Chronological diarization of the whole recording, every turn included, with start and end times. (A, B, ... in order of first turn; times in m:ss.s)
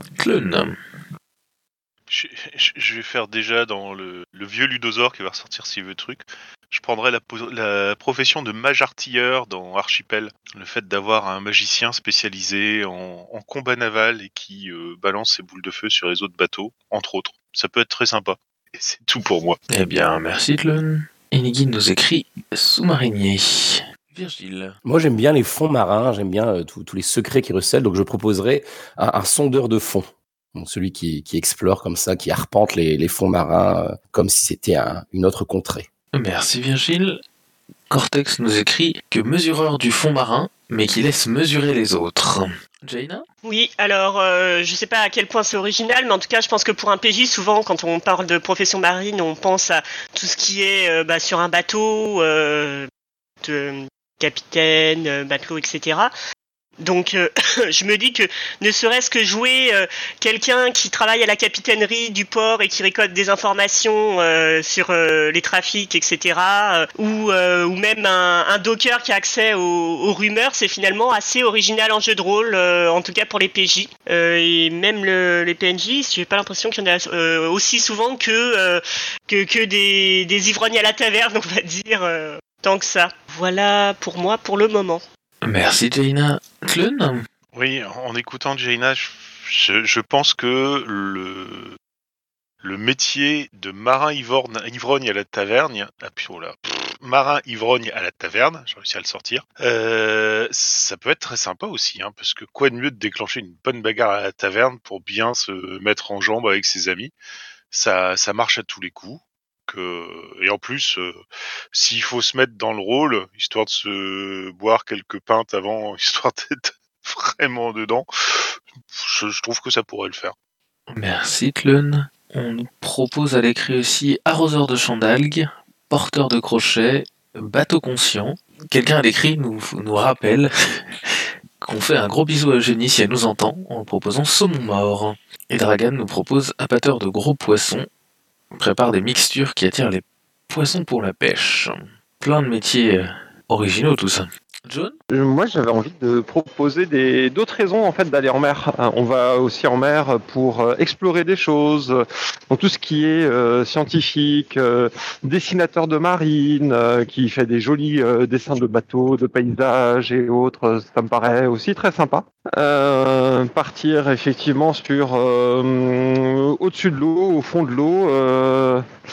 0:00.2-0:00.8 A
0:02.1-0:19.6 B
0:19.7-0:24.8 A
0:24.8-0:35.9 C
0:36.1-0:37.2 A
0:37.9-0:43.2 A
0:43.5-0:52.9 D
0:53.4-0:56.1 D
0:56.8-1:25.0 D
1:25.4-1:27.3 A
1:27.5-1:31.8 B
1:32.6-1:47.1 B
1:47.7-1:51.2 B
1:51.7-2:00.3 B
2:00.9-2:17.9 A
2:18.5-2:25.0 A
2:25.1-2:32.0 E
2:32.5-2:48.8 E